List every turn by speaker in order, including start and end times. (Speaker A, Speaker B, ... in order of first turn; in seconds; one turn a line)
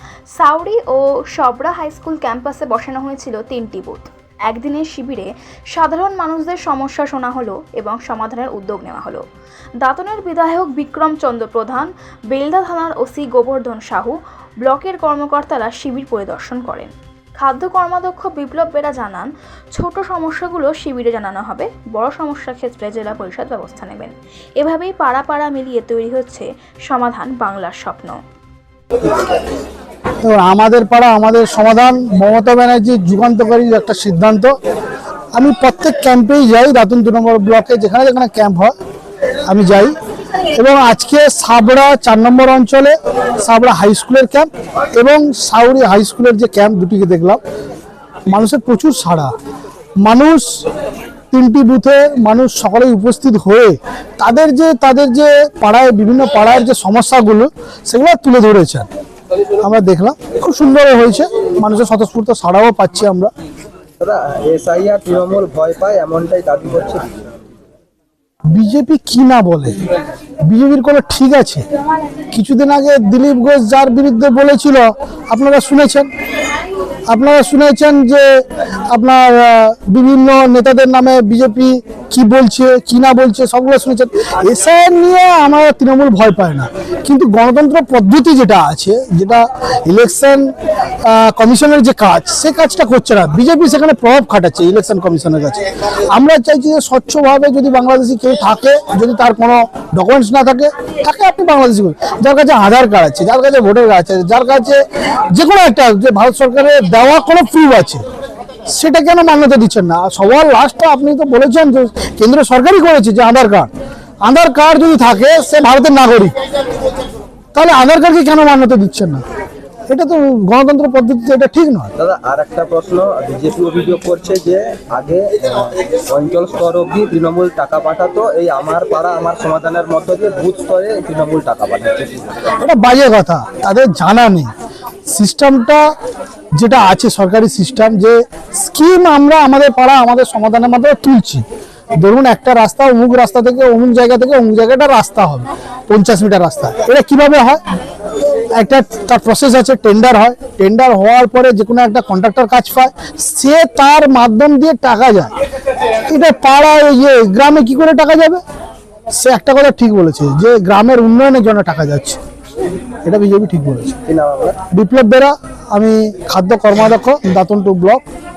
Speaker A: 0.4-9.2
Speaker A: 9.8-28.2
Speaker B: 30.2-34.5
Speaker B: 35.3-38.7
Speaker B: 39.5-39.9
Speaker B: 40.5-47.4
Speaker B: 48.3-49.3
Speaker B: 50.0-50.6
Speaker B: 51.3-58.9
Speaker B: 59.6-63.3
Speaker C: 64.0-67.2
Speaker B: 68.5-69.8
Speaker B: 70.5-71.7
Speaker B: 72.3-76.1
Speaker B: 77.1-90.5
Speaker B: 91.0-108.0
Speaker B: 108.7-113.7
Speaker B: 114.2-116.3
Speaker B: 117.5-119.2
Speaker B: 119.9-121.9
Speaker C: 122.0-132.5
Speaker B: 132.6-134.5
Speaker B: 135.1-135.9
Speaker B: 136.6-141.4
Speaker B: 142.0-147.6
Speaker B: 148.5-155.3
Speaker B: 156.1-158.4
Speaker B: 159.1-162.2
Speaker B: 163.1-164.0
Speaker C: 164.1-164.6
Speaker B: 164.7-168.0